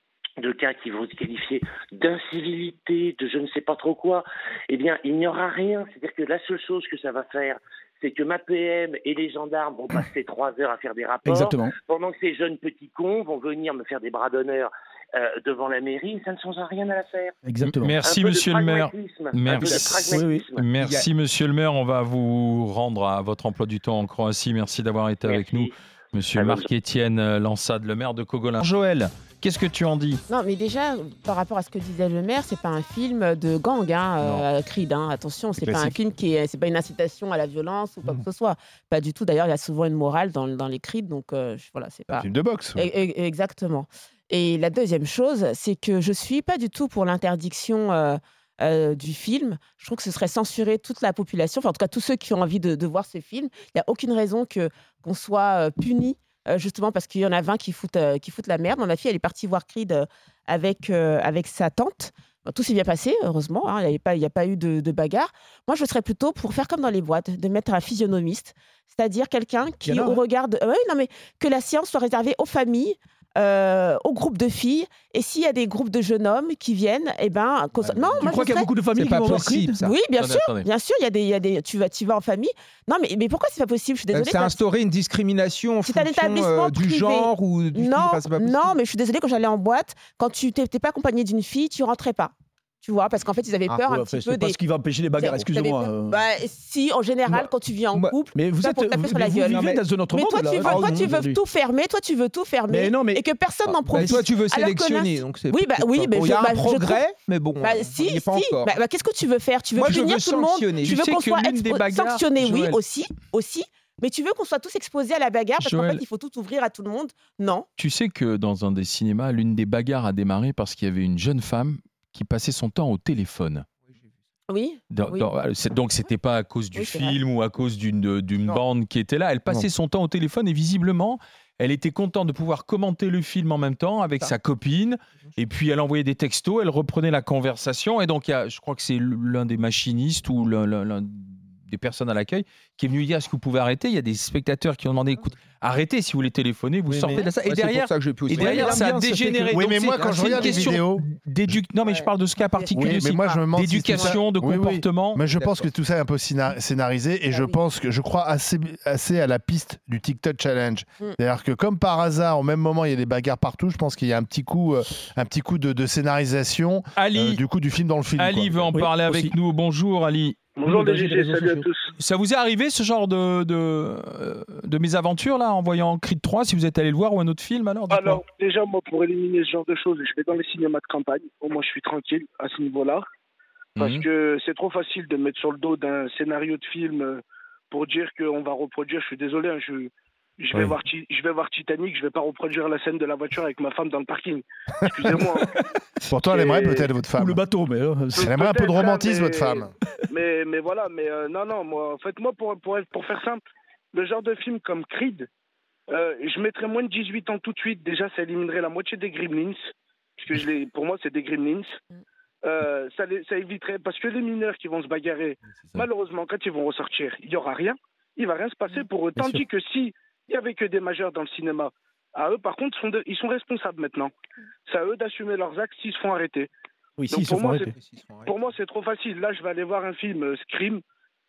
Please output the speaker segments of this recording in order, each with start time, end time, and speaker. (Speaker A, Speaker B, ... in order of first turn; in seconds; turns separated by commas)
Speaker A: 0.4-17.4, Speaker B: 11.2-11.8, Speaker B: 17.5-17.9, Speaker C: 17.6-30.2, Speaker A: 18.0-20.7, Speaker D: 19.5-20.0, Speaker B: 20.1-20.4, Speaker D: 20.8-21.1, Speaker A: 25.2-25.7, Speaker A: 26.3-26.7, Speaker E: 30.3-78.7, Speaker F: 35.6-36.0, Speaker F: 42.1-42.8, Speaker B: 69.8-70.2, Speaker F: 77.8-78.2, Speaker B: 78.2-79.8, Speaker D: 78.9-80.0, Speaker E: 79.8-84.6, Speaker C: 80.2-80.7, Speaker D: 84.1-88.8, Speaker E: 85.9-94.6, Speaker B: 93.9-96.2, Speaker E: 95.2-107.0, Speaker B: 98.3-101.4, Speaker D: 99.4-99.8, Speaker D: 100.6-101.2, Speaker B: 102.7-103.2, Speaker D: 103.9-108.8, Speaker B: 103.9-104.2, Speaker E: 107.6-117.7, Speaker D: 109.8-111.0, Speaker C: 110.8-112.8, Speaker C: 115.6-116.0, Speaker C: 117.8-123.7, Speaker E: 124.5-125.3, Speaker C: 124.9-155.6, Speaker E: 126.8-127.2, Speaker D: 146.9-148.8, Speaker B: 148.3-150.3, Speaker F: 149.5-151.1, Speaker E: 151.8-154.1, Speaker F: 152.7-168.7, Speaker C: 167.0-167.4, Speaker C: 168.2-170.6, Speaker B: 168.7-169.3, Speaker G: 170.6-171.9, Speaker B: 170.6-171.7, Speaker C: 172.0-178.2, Speaker G: 177.9-183.0, Speaker C: 183.8-184.1, Speaker G: 183.8-195.6, Speaker F: 196.1-197.4, Speaker G: 196.3-196.9, Speaker B: 197.2-198.3, Speaker G: 198.2-203.4, Speaker F: 198.2-199.7, Speaker G: 203.9-205.3, Speaker G: 205.9-211.8, Speaker G: 212.4-224.1, Speaker B: 219.2-219.4, Speaker G: 224.7-226.5, Speaker B: 227.0-227.7, Speaker G: 227.1-227.7, Speaker D: 227.8-228.3, Speaker G: 228.2-230.8